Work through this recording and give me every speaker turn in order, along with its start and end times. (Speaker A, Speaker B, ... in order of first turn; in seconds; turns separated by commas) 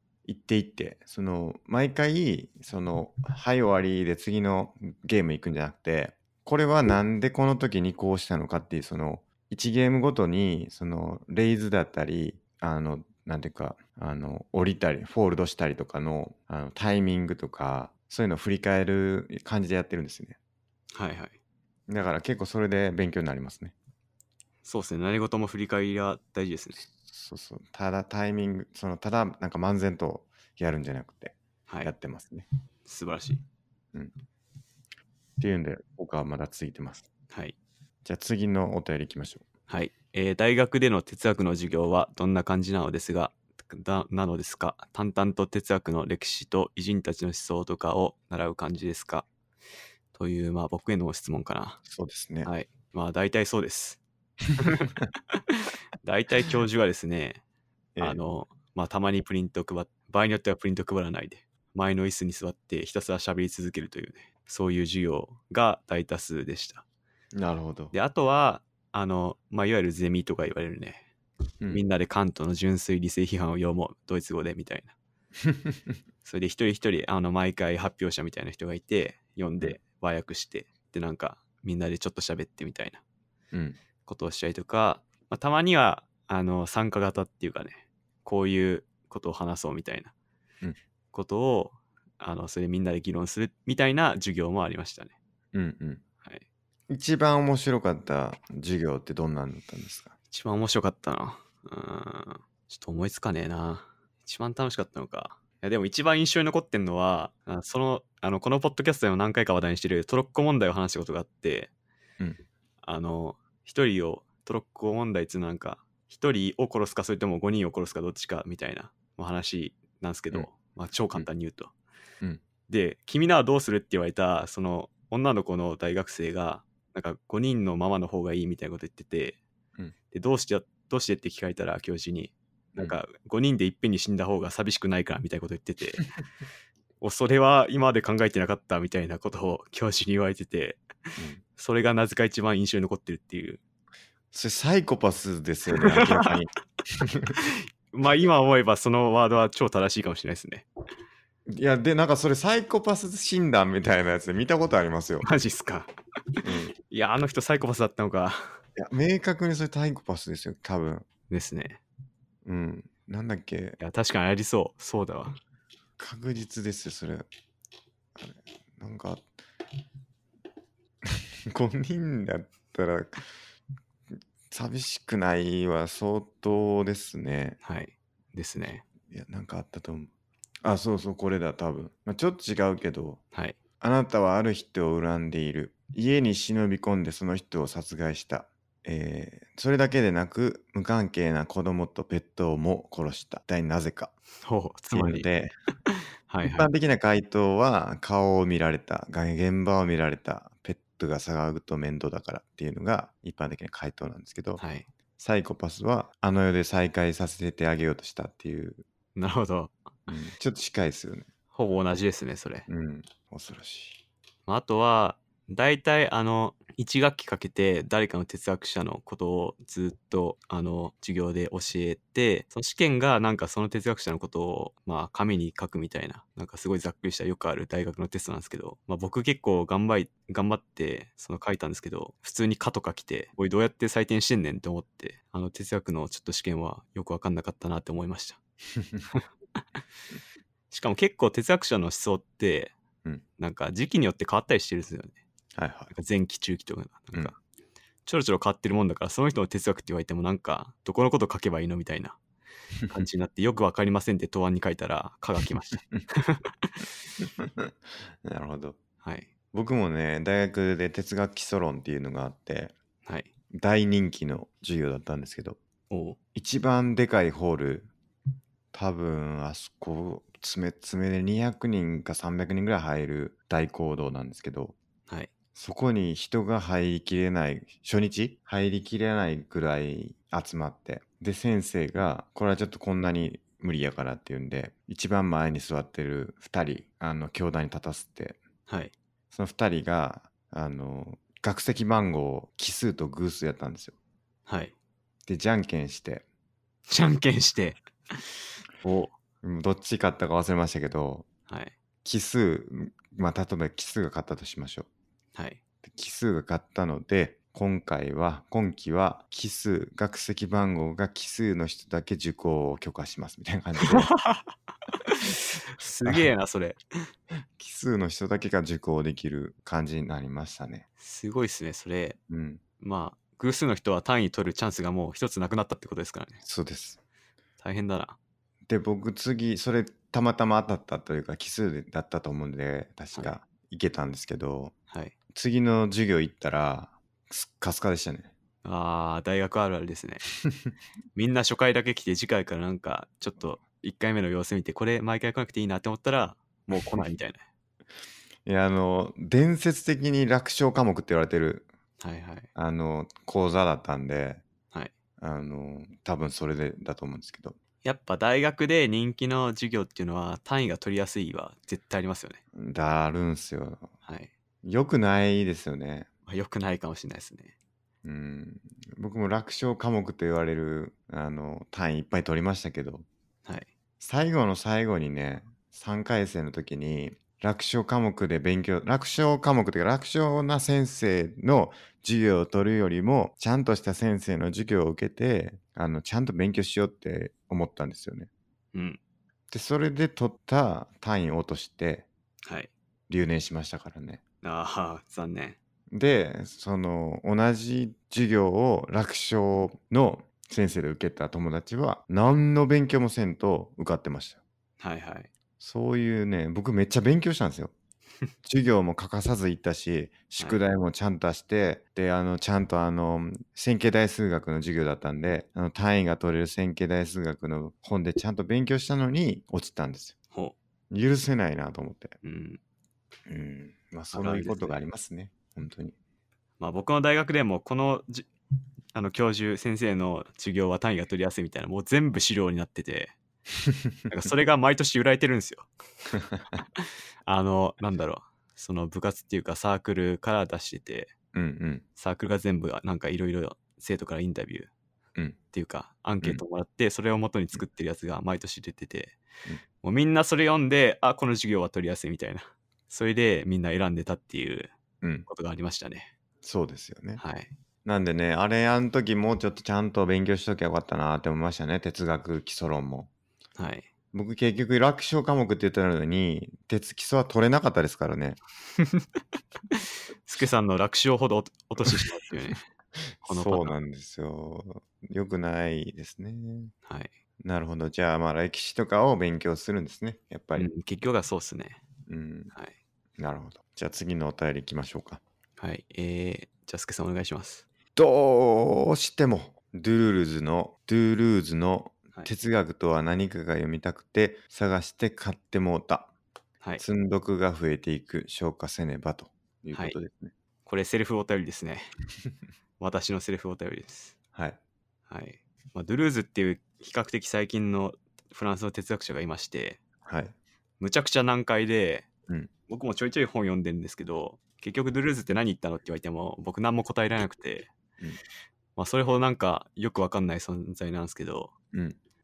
Speaker A: 0.3-20.4, Speaker B: 20.9-21.3, Speaker A: 21.9-23.7, Speaker B: 24.6-26.8, Speaker A: 26.9-32.5, Speaker B: 32.8-33.4, Speaker A: 35.4-37.1, Speaker B: 37.3-37.5, Speaker A: 38.0-39.5, Speaker B: 39.7-49.2, Speaker B: 50.1-51.8, Speaker A: 51.9-52.5, Speaker B: 52.4-54.0, Speaker B: 54.6-57.4, Speaker B: 58.0-66.8, Speaker A: 67.3-67.9, Speaker B: 67.9-71.0, Speaker B: 71.7-74.9, Speaker A: 75.5-75.7, Speaker B: 76.2-83.0, Speaker A: 83.5-83.8, Speaker B: 84.0-90.1, Speaker B: 91.1-95.1, Speaker A: 95.5-96.0, Speaker A: 96.9-100.1, Speaker B: 100.3-111.7, Speaker B: 112.8-121.7, Speaker B: 122.7-129.4, Speaker B: 130.1-136.0, Speaker B: 137.0-140.8, Speaker A: 141.2-141.4, Speaker B: 141.6-143.6, Speaker A: 144.3-147.3, Speaker B: 145.7-146.3, Speaker B: 147.4-150.7, Speaker A: 151.5-155.3, Speaker B: 155.2-158.6, Speaker A: 156.4-156.7, Speaker A: 158.8-161.1, Speaker B: 161.3-161.8, Speaker A: 162.4-163.8, Speaker B: 163.8-165.4, Speaker A: 166.0-167.2, Speaker A: 168.2-169.2, Speaker A: 171.0-173.2, Speaker A: 174.5-177.6, Speaker B: 177.6-178.8, Speaker A: 179.1-180.1, Speaker A: 180.6-183.2, Speaker A: 183.8-194.1, Speaker B: 194.4-195.3, Speaker A: 194.9-195.5, Speaker B: 195.9-196.7, Speaker A: 196.4-204.6, Speaker B: 204.6-204.9, Speaker A: 205.2-208.8, Speaker B: 209.2-210.1, Speaker A: 210.1-211.3, Speaker B: 211.5-212.7, Speaker A: 212.7-214.0, Speaker B: 214.5-238.4, Speaker A: 238.7-239.1, Speaker B: 240.7-242.7, Speaker B: 243.4-245.2, Speaker A: 245.5-245.9, Speaker B: 245.9-247.4, Speaker B: 248.1-252.2, Speaker B: 252.9-256.9, Speaker A: 257.2-257.7, Speaker A: 258.2-258.8, Speaker B: 259.0-259.3, Speaker A: 259.5-262.7, Speaker B: 263.0-263.3, Speaker A: 263.5-265.6, Speaker B: 265.9-266.2, Speaker A: 266.3-267.9, Speaker A: 268.7-274.8, Speaker A: 275.5-288.4, Speaker B: 288.7-288.9, Speaker A: 289.3-293.9, Speaker B: 294.5-294.7, Speaker A: 295.3-296.2, Speaker B: 296.9-298.3, Speaker B: 298.8-299.1, Speaker A: 299.4-301.3, Speaker B: 301.5-301.7, Speaker A: 302.0-304.9, Speaker B: 305.3-305.6, Speaker A: 305.9-314.1, Speaker B: 313.8-316.8, Speaker A: 317.6-320.9, Speaker B: 321.0-322.2, Speaker A: 322.3-322.6, Speaker B: 322.8-326.4, Speaker A: 326.4-327.0, Speaker B: 327.6-328.2, Speaker A: 328.7-334.7, Speaker A: 335.3-338.3, Speaker B: 338.6-340.3, Speaker B: 341.1-347.4, Speaker A: 348.4-351.7, Speaker B: 352.0-352.5, Speaker A: 352.5-354.4, Speaker A: 355.2-357.6, Speaker B: 357.8-362.4, Speaker A: 362.5-363.9, Speaker B: 364.0-364.3, Speaker A: 364.6-366.1, Speaker B: 366.3-367.5, Speaker A: 368.0-373.1, Speaker A: 374.0-388.3, Speaker B: 388.7-389.0, Speaker A: 389.5-392.1, Speaker B: 392.4-392.7, Speaker A: 393.1-394.2, Speaker B: 394.4-395.6, Speaker A: 395.9-404.4, Speaker B: 404.8-405.3, Speaker A: 405.6-407.7, Speaker A: 408.4-420.1, Speaker A: 420.9-422.1, Speaker B: 422.2-422.6, Speaker A: 423.3-425.9, Speaker B: 424.1-424.8, Speaker B: 426.6-428.3, Speaker B: 428.9-433.1, Speaker B: 434.1-435.7, Speaker B: 436.6-441.1, Speaker A: 441.3-441.8, Speaker B: 442.0-444.7, Speaker B: 445.5-449.2, Speaker B: 449.8-454.7, Speaker B: 455.3-456.1, Speaker A: 456.4-457.2, Speaker B: 457.2-457.5, Speaker A: 457.8-463.1, Speaker B: 463.6-463.9, Speaker A: 464.1-468.4, Speaker B: 468.8-469.1, Speaker B: 469.7-472.6, Speaker A: 473.0-476.7, Speaker B: 473.2-473.8, Speaker B: 476.8-477.1, Speaker A: 477.4-480.7, Speaker B: 480.6-481.8, Speaker A: 482.1-482.5, Speaker A: 483.2-485.2, Speaker B: 485.6-487.6, Speaker A: 487.9-496.1, Speaker A: 496.8-500.3, Speaker B: 500.6-501.9, Speaker B: 502.8-504.1, Speaker B: 505.1-509.8, Speaker A: 510.1-510.3, Speaker B: 510.8-512.1, Speaker B: 512.7-517.7, Speaker B: 518.8-521.5